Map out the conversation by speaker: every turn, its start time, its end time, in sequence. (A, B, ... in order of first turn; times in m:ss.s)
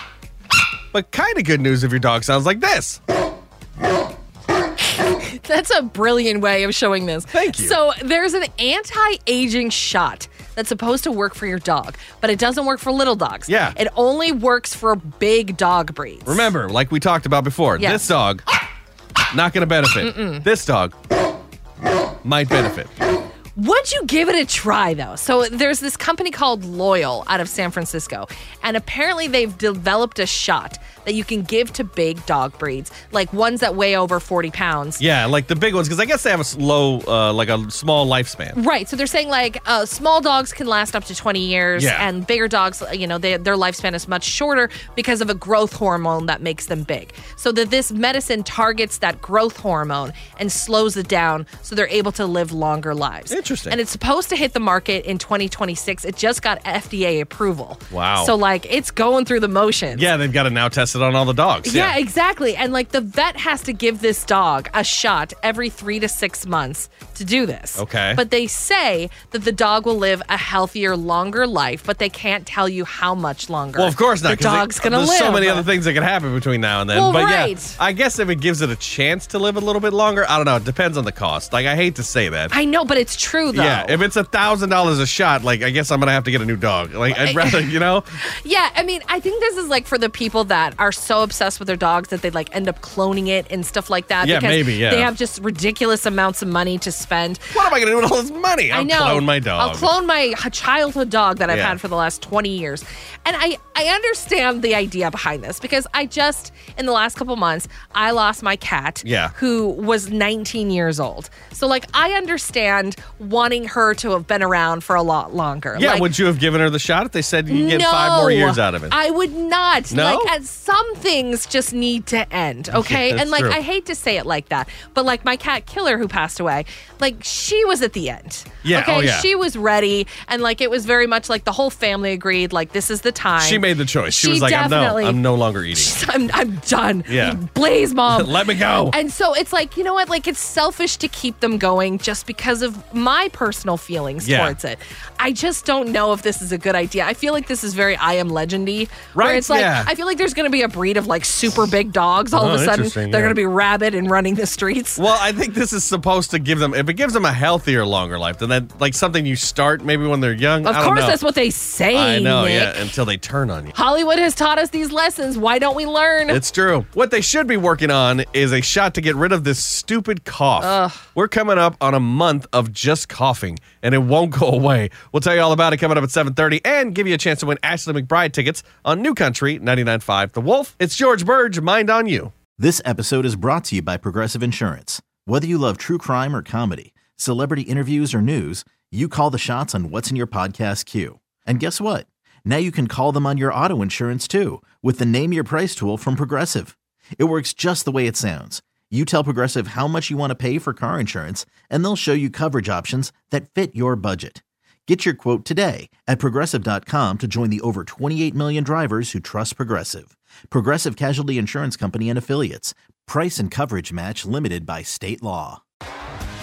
0:00.9-0:03.0 A
0:05.0-0:16.5 B
0:07.3-0:07.8 A
0:13.5-0:13.8 A
0:16.2-0:18.5 A
0:17.8-0:18.1 B
0:19.3-0:20.9 A
0:20.0-0:20.4 B
0:22.2-0:22.9 A
0:23.6-0:35.0 B
0:35.0-0:38.6 A
0:38.5-1:00.1 B
0:41.8-0:42.1 A
0:53.3-0:53.8 A
0:57.9-0:58.3 A
0:59.9-1:02.0 A
1:01.6-1:15.7 B
1:07.8-1:08.2 A
1:13.8-1:22.5 A
1:16.9-1:17.8 B
1:22.5-1:24.0 B
1:23.5-1:28.1 A
1:27.1-1:27.7 B
1:28.3-1:37.5 B
1:34.2-1:35.1 A
1:37.5-1:39.9 A
1:38.7-1:56.1 B
1:41.5-1:41.8 A
1:49.0-1:49.3 A
1:55.7-1:59.0 A
1:57.5-2:35.0 B
1:59.9-2:00.3 A
2:02.7-2:03.6 A
2:08.6-2:09.3 A
2:13.4-2:16.0 A
2:17.1-2:17.4 A
2:18.1-2:19.0 A
2:24.2-2:24.6 A
2:29.1-2:29.9 A
2:32.3-2:33.4 A
2:34.9-2:41.2 A
2:40.6-2:42.9 B
2:41.9-2:43.7 A
2:43.7-2:46.4 B
2:46.3-3:02.3 A
2:50.6-2:51.0 B
3:02.6-3:35.6 C